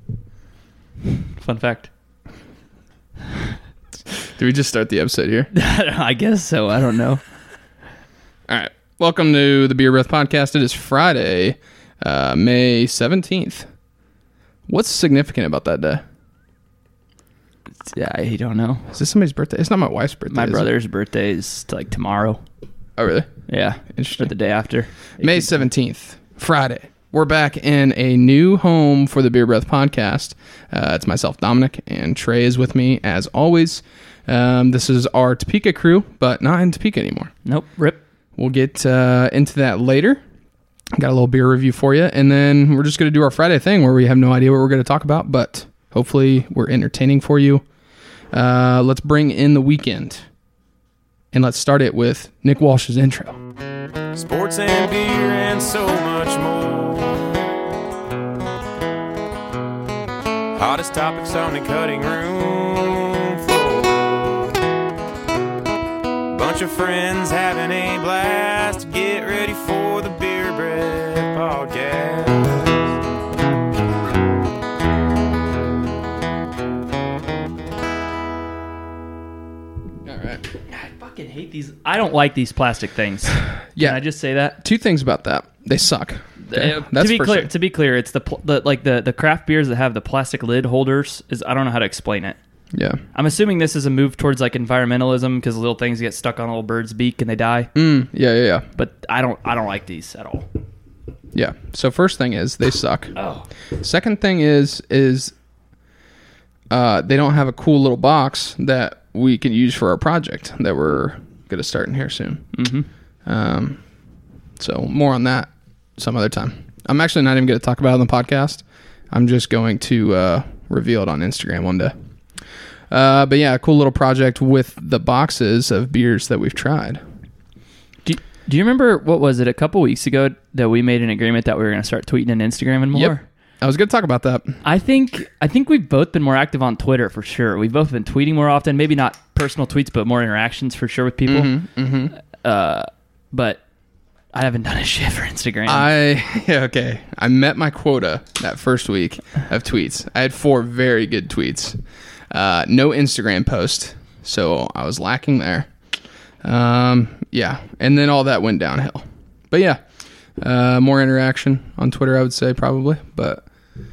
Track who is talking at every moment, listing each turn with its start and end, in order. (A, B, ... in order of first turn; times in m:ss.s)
0:01.4-0:01.9 A
0:04.2-0:05.5 B
0:05.5-0:07.2 A
0:08.5-0:13.7 B
0:14.7-0:16.0 B
0:17.8-0:18.9 A
0:18.9-0:20.7 B
0:20.3-0:22.4 A
0:23.0-0:23.3 B
0:23.5-0:25.6 A
0:23.9-0:24.3 B
0:25.2-0:37.3 B
0:37.4-0:38.0 A
0:38.4-0:40.2 B
0:41.0-0:47.6 B
0:48.3-0:50.2 B
0:51.3-0:53.4 B
0:54.1-0:57.4 C
1:00.6-1:04.5 C
1:06.3-1:12.9 C
1:20.0-1:20.4 B
1:20.7-1:24.6 A
1:23.7-1:24.0 B
1:24.6-1:27.5 B
1:26.4-1:32.4 A
1:32.7-1:33.0 B
1:33.1-1:37.7 A
1:37.7-1:38.6 B
1:38.8-1:40.5 A
1:41.3-1:43.1 B
1:43.2-1:43.4 A
1:43.8-1:45.3 B
1:46.7-1:52.5 B
1:52.5-1:52.8 A
1:53.2-1:53.8 B
1:54.6-2:01.9 B
2:02.9-2:07.0 B
2:08.0-2:13.2 A
2:12.9-2:14.6 B
2:14.6-2:21.5 A
2:21.3-2:22.1 B
2:22.4-2:23.6 A
2:24.3-2:25.9 A
2:25.6-2:31.8 B
2:32.3-2:35.7 B
2:36.4-2:39.8 B
2:40.4-2:43.4 B